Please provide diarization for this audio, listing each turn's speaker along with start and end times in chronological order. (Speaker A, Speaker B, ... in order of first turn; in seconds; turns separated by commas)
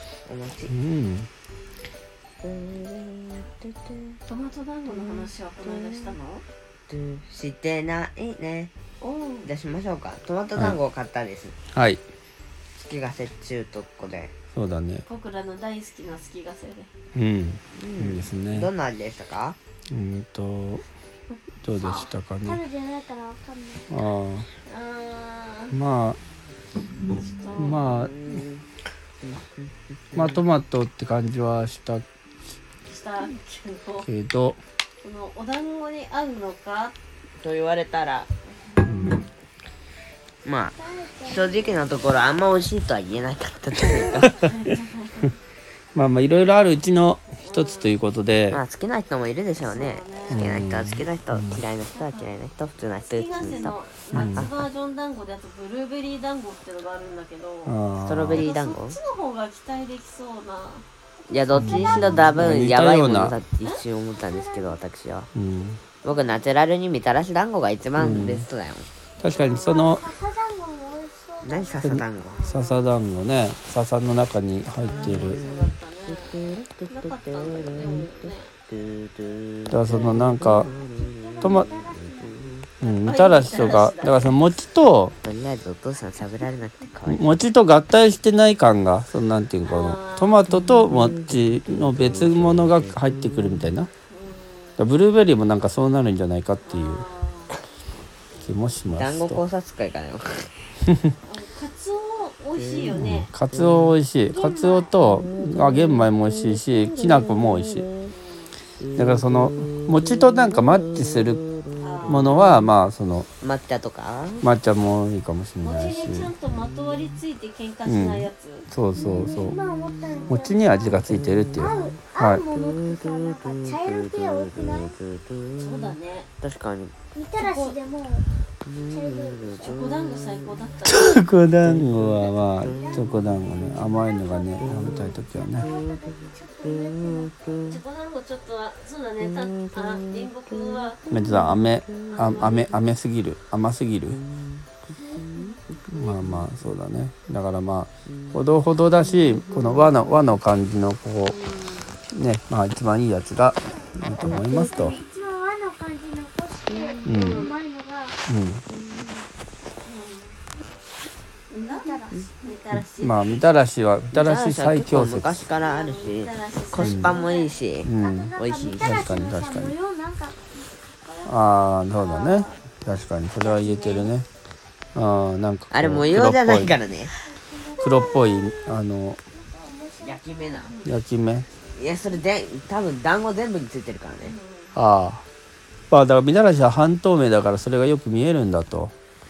Speaker A: 0.2-0.7, Speaker B: 0.7-1.3, Speaker A: 2.4-4.2, Speaker C: 4.3-6.4, Speaker A: 4.8-6.2, Speaker A: 6.9-8.7, Speaker C: 9.0-9.5, Speaker A: 9.4-11.6, Speaker B: 11.7-12.0, Speaker A: 12.8-14.3, Speaker B: 14.5-15.0, Speaker C: 15.1-16.9, Speaker B: 17.1-18.7, Speaker A: 17.8-19.6, Speaker B: 19.9-20.8, Speaker B: 21.6-22.6, Speaker C: 21.8-22.1, Speaker D: 22.4-24.0, Speaker B: 23.9-24.5, Speaker C: 24.6-25.8, Speaker B: 25.7-26.2, Speaker C: 27.1-27.8, Speaker B: 27.5-28.4, Speaker A: 27.9-28.6, Speaker A: 29.2-30.4, Speaker B: 30.1-32.0, Speaker C: 32.8-34.1, Speaker B: 34.0-34.6, Speaker C: 35.0-37.0, Speaker A: 37.4-38.3, Speaker C: 38.5-38.9, Speaker B: 38.8-39.2, Speaker A: 40.4-44.3, Speaker D: 40.7-42.4, Speaker C: 43.9-45.4, Speaker B: 45.9-48.6, Speaker C: 47.4-48.0, Speaker A: 48.5-54.5, Speaker C: 49.6-50.6, Speaker B: 50.3-51.6, Speaker C: 51.9-52.4, Speaker C: 53.0-57.7, Speaker B: 54.1-54.5, Speaker B: 57.6-58.5, Speaker A: 58.0-59.0, Speaker C: 58.3-60.9, Speaker A: 61.3-65.3, Speaker B: 61.5-63.4, Speaker C: 61.9-62.4, Speaker D: 64.1-64.8, Speaker B: 65.3-65.8, Speaker A: 66.0-68.9, Speaker C: 66.1-66.5, Speaker B: 68.0-68.5, Speaker B: 69.2-70.1, Speaker C: 69.2-69.6, Speaker D: 69.4-72.0, Speaker A: 71.4-72.4, Speaker B: 71.8-75.4, Speaker C: 72.2-72.9, Speaker C: 74.7-78.5, Speaker A: 74.9-82.7, Speaker B: 79.7-80.7, Speaker D: 80.4-82.5, Speaker B: 81.4-81.7, Speaker B: 82.8-85.2, Speaker C: 83.0-84.4, Speaker A: 85.2-87.4, Speaker B: 87.0-93.9, Speaker C: 89.6-90.4, Speaker A: 90.5-93.7, Speaker C: 94.1-94.8, Speaker B: 94.8-97.0, Speaker C: 96.7-97.6, Speaker B: 98.4-99.4, Speaker A: 98.9-100.7, Speaker B: 100.8-101.1, Speaker C: 101.2-103.3, Speaker A: 102.5-103.0, Speaker B: 102.9-107.9, Speaker A: 103.5-103.9, Speaker D: 104.3-104.9, Speaker A: 105.2-108.1, Speaker C: 108.1-108.6, Speaker A: 108.8-112.6, Speaker B: 108.9-111.4, Speaker C: 111.8-112.4, Speaker B: 112.0-113.3, Speaker A: 113.4-114.5, Speaker B: 114.4-116.3, Speaker C: 115.6-118.7, Speaker B: 117.8-119.6, Speaker A: 119.0-120.3, Speaker D: 119.0-121.0, Speaker B: 120.3-122.4, Speaker A: 121.0-127.0, Speaker D: 121.5-125.0, Speaker C: 125.5-126.3, Speaker D: 127.1-128.3, Speaker C: 127.4-127.8, Speaker A: 128.6-130.6, Speaker D: 128.9-129.8, Speaker C: 129.6-131.1, Speaker B: 130.8-135.7, Speaker A: 131.6-134.0, Speaker D: 132.6-137.6, Speaker A: 134.6-137.8, Speaker C: 137.7-141.0, Speaker A: 139.2-142.4, Speaker B: 141.1-144.2, Speaker C: 142.1-142.7, Speaker A: 144.1-146.4, Speaker D: 144.9-145.6, Speaker B: 145.9-151.4, Speaker A: 148.1-148.4, Speaker A: 148.9-150.2, Speaker C: 151.3-151.9, Speaker B: 152.1-155.0, Speaker A: 154.2-154.9, Speaker D: 154.2-158.2, Speaker A: 156.7-157.2, Speaker B: 157.0-157.5, Speaker C: 157.1-157.5, Speaker B: 158.3-158.6, Speaker C: 159.8-160.4, Speaker C: 161.5-161.9, Speaker D: 161.6-162.3, Speaker C: 162.4-163.4, Speaker B: 162.7-165.5, Speaker A: 164.1-169.3, Speaker C: 165.5-167.5, Speaker B: 166.8-167.2, Speaker B: 167.8-169.7, Speaker D: 167.8-172.6, Speaker B: 171.2-174.3, Speaker D: 173.4-174.1, Speaker B: 174.9-176.8, Speaker A: 175.7-177.3, Speaker D: 177.2-178.8, Speaker B: 177.8-179.2, Speaker D: 179.3-180.7, Speaker A: 180.0-180.7, Speaker B: 180.8-181.5, Speaker A: 181.7-184.4, Speaker C: 184.2-184.8, Speaker B: 184.7-185.2, Speaker B: 185.9-188.9